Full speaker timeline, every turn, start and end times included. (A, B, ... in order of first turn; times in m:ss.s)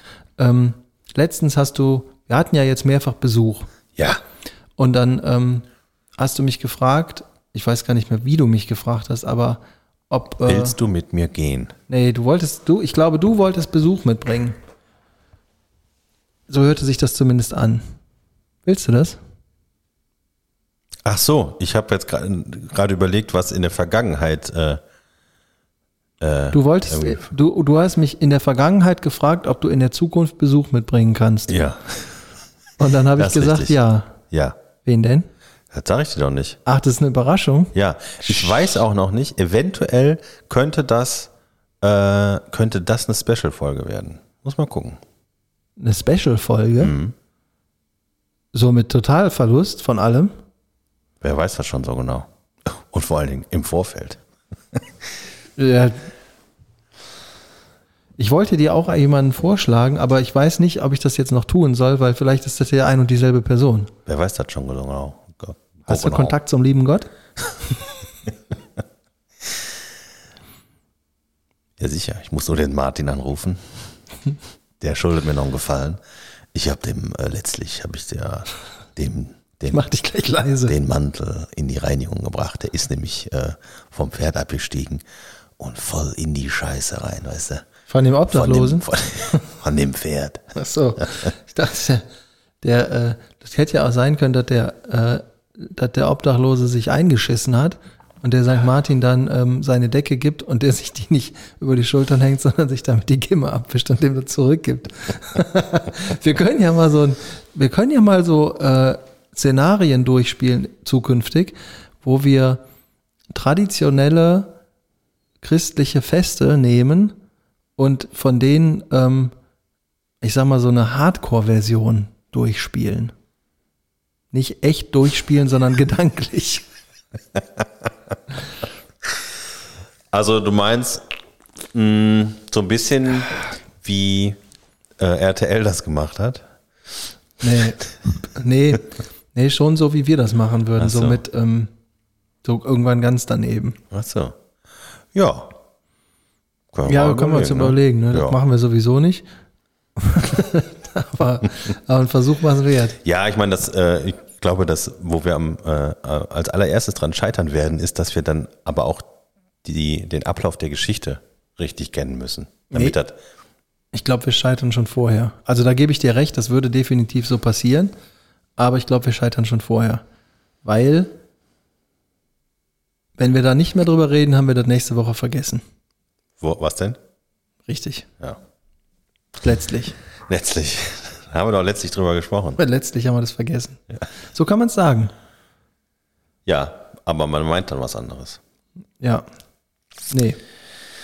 0:00.4-0:03.7 A
0:04.8-0:05.6 A
0:06.2-0:10.8 A
0:10.4-0:11.7 B
0:11.9-0:14.6 A
0:16.5-0:17.8 A
0:18.6-0:19.2 A
0:21.0-0:24.8 B
0:26.2-0:27.3 B
0:26.5-0:31.6 A
0:31.5-0:32.1 B
0:32.8-0:34.2 A
0:33.2-0:33.8 B
0:34.3-0:34.6 B
0:34.8-0:35.3 A
0:35.7-0:36.6 B
0:36.6-0:37.7 A
0:37.7-0:41.3 B
0:41.8-0:45.0 B
0:45.8-0:46.9 A
0:46.8-0:47.1 B
0:48.5-0:50.3 A
0:51.2-0:54.2 B
0:55.6-0:56.0 A
0:58.2-1:03.9 A
1:04.0-1:06.4 B
1:05.9-1:07.1 A
1:11.8-1:13.6 B
1:14.8-1:16.0 B
1:16.5-1:19.8 B
1:19.7-1:20.7 A
1:20.6-1:25.0 B
1:25.6-1:27.6 B
1:27.9-1:28.9 A
1:28.3-1:30.5 B
1:30.5-1:32.0 A
1:32.6-1:52.6 A
1:53.3-1:54.5 A
1:55.4-1:57.2 A
1:57.8-1:59.3 A
2:00.2-2:03.1 A
2:04.3-2:06.6 A
2:10.1-2:11.0 B
2:11.7-2:14.4 B
2:15.0-2:16.4 B
2:17.4-2:21.7 A
2:20.8-2:21.2 B
2:22.4-2:23.8 A
2:23.9-2:24.4 B
2:25.1-2:25.5 B
2:26.7-2:28.4 B
2:26.8-2:29.2 A
2:30.0-2:33.0 A
2:33.0-2:39.1 B
2:39.6-2:43.2 B
2:43.9-2:47.9 A
2:48.6-2:50.0 A
2:50.6-2:51.1 A
2:53.2-2:55.6 A
2:56.4-2:57.0 B
2:57.7-2:58.1 A
2:59.4-3:00.0 A
3:00.3-3:02.6 B
3:02.6-3:03.8 A
3:04.3-3:05.1 A
3:06.4-3:08.4 B
3:09.0-3:09.2 A
3:10.1-3:10.4 A